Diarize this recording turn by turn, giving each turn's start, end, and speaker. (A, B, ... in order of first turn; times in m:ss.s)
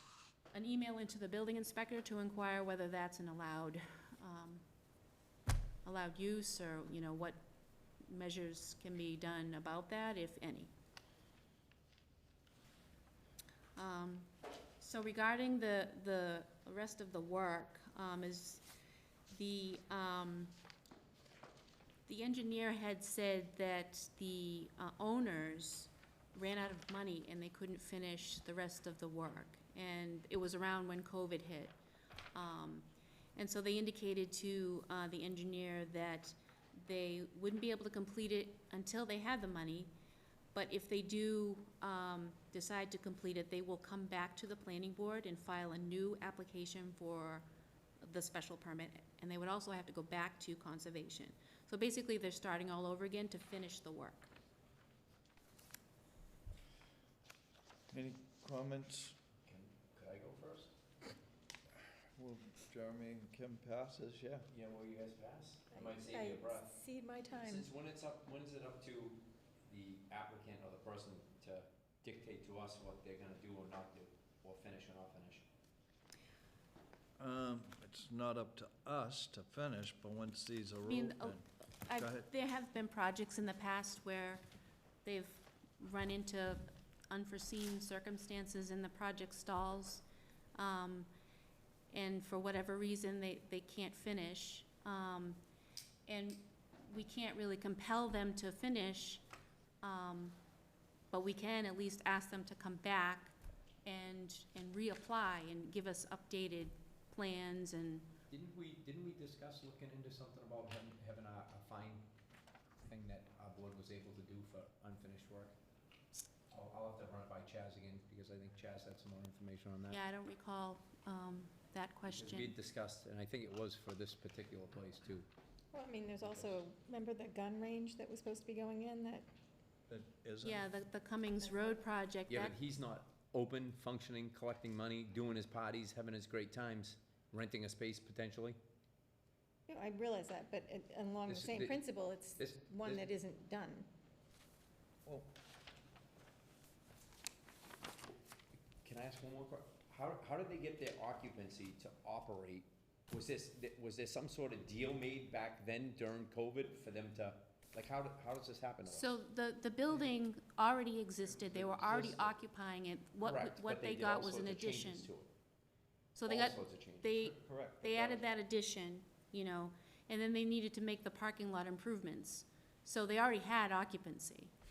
0:00.5-0:04.6 A
0:05.8-0:07.4 A
0:08.0-0:10.7 A
0:13.8-0:18.6 A
0:19.3-0:20.5 A
0:22.1-0:31.8 A
0:32.3-0:39.9 A
0:40.5-0:47.4 A
0:48.0-0:54.3 A
0:57.9-0:59.2 B
0:59.4-1:00.7 C
1:02.2-1:04.5 B
1:04.5-1:15.4 C
1:05.7-1:07.7 D
1:17.2-1:21.4 B
1:20.8-1:24.4 A
1:22.0-1:22.3 B
1:25.0-1:30.0 A
1:30.5-1:31.1 A
1:31.9-1:35.4 A
1:36.1-1:39.2 A
1:39.8-1:40.4 A
1:41.1-1:48.1 A
1:48.3-1:52.1 C
1:52.8-1:55.5 C
1:56.5-2:00.0 C
1:59.9-2:02.5 A
2:02.1-2:05.3 C
2:05.7-2:09.3 D
2:09.9-2:10.7 B
2:10.4-2:12.5 A
2:12.3-2:18.6 C
2:19.7-2:23.9 D
2:21.2-2:21.8 C
2:22.3-2:23.1 C
2:25.0-2:25.3 B
2:28.8-2:39.2 C
2:38.8-2:45.1 A
2:41.2-2:42.4 B
2:43.2-2:45.3 C
2:46.1-2:54.5 A
2:46.2-2:47.1 C
2:47.2-2:48.3 B